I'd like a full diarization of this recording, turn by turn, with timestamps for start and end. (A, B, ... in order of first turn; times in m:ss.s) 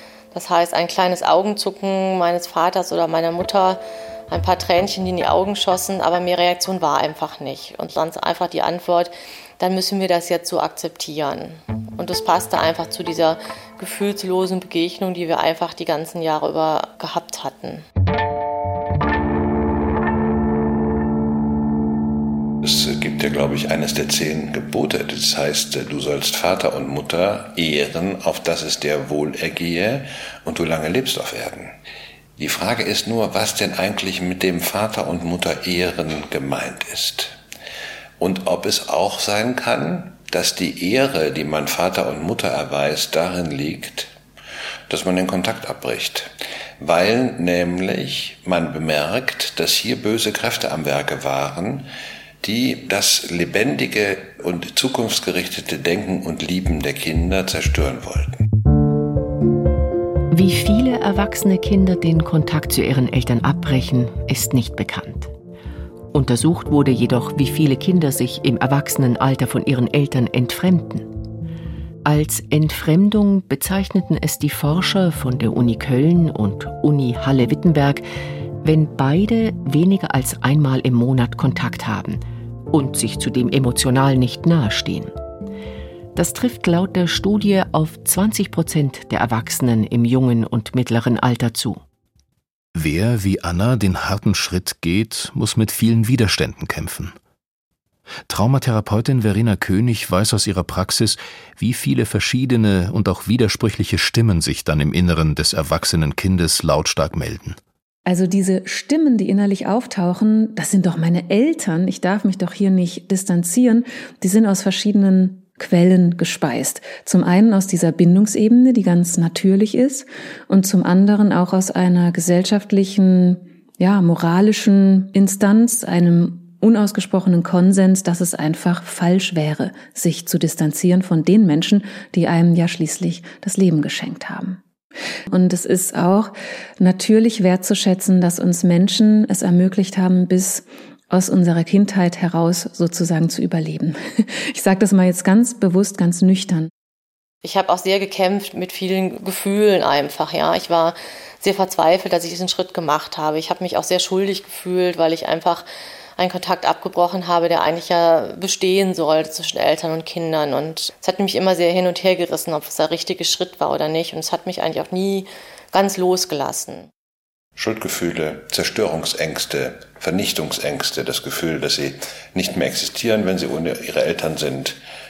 0:00.3-0:17.8 A
0:22.6-0:31.7 B
0:32.4-0:37.4 B
0:38.2-0:44.1 B
0:44.9-0:51.9 B
0:52.4-0:58.4 B
1:00.3-1:05.3 C
1:06.1-1:11.1 C
1:12.0-1:18.0 C
1:18.6-1:25.1 C
1:26.1-1:31.8 C
1:32.7-1:37.2 D
1:38.3-1:47.6 D
1:48.0-2:14.6 E
2:15.3-2:26.7 E
2:27.4-2:35.6 A
2:36.2-2:46.9 A
2:47.6-2:54.8 B